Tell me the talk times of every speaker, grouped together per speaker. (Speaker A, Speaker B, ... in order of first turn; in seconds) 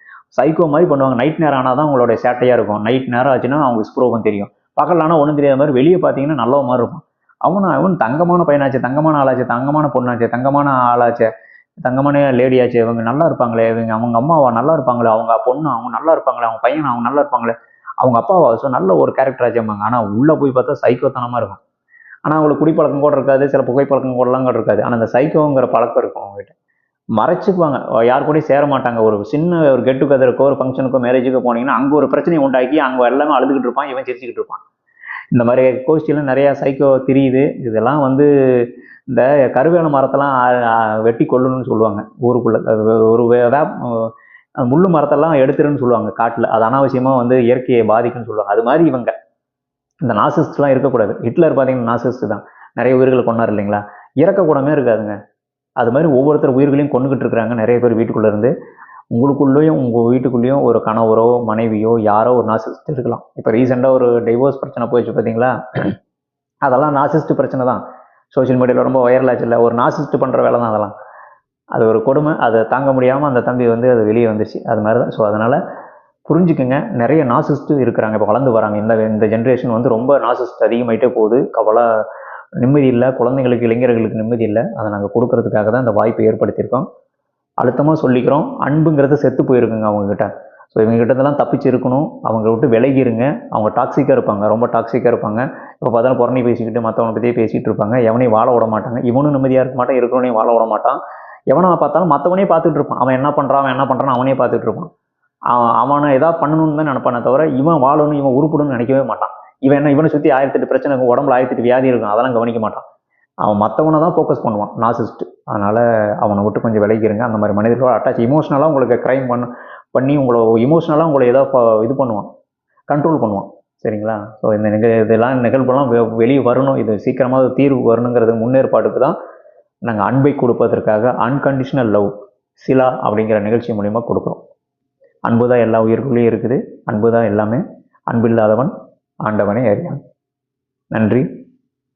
Speaker A: 0.3-11.3, 11.8-21.6, 22.2-26.6, 27.1-34.6, 35.3-49.1, 50.0-55.1, 55.8-58.5, 59.1-65.9, 66.7-70.9, 71.7-75.6, 76.3-81.9, 82.6-86.8, 87.6-101.0, 101.5-104.9, 105.5-112.8, 113.4-122.3, 122.9-129.2, 129.8-132.1, 132.6-134.4, 135.2-138.7, 139.2-140.0, 140.9-141.3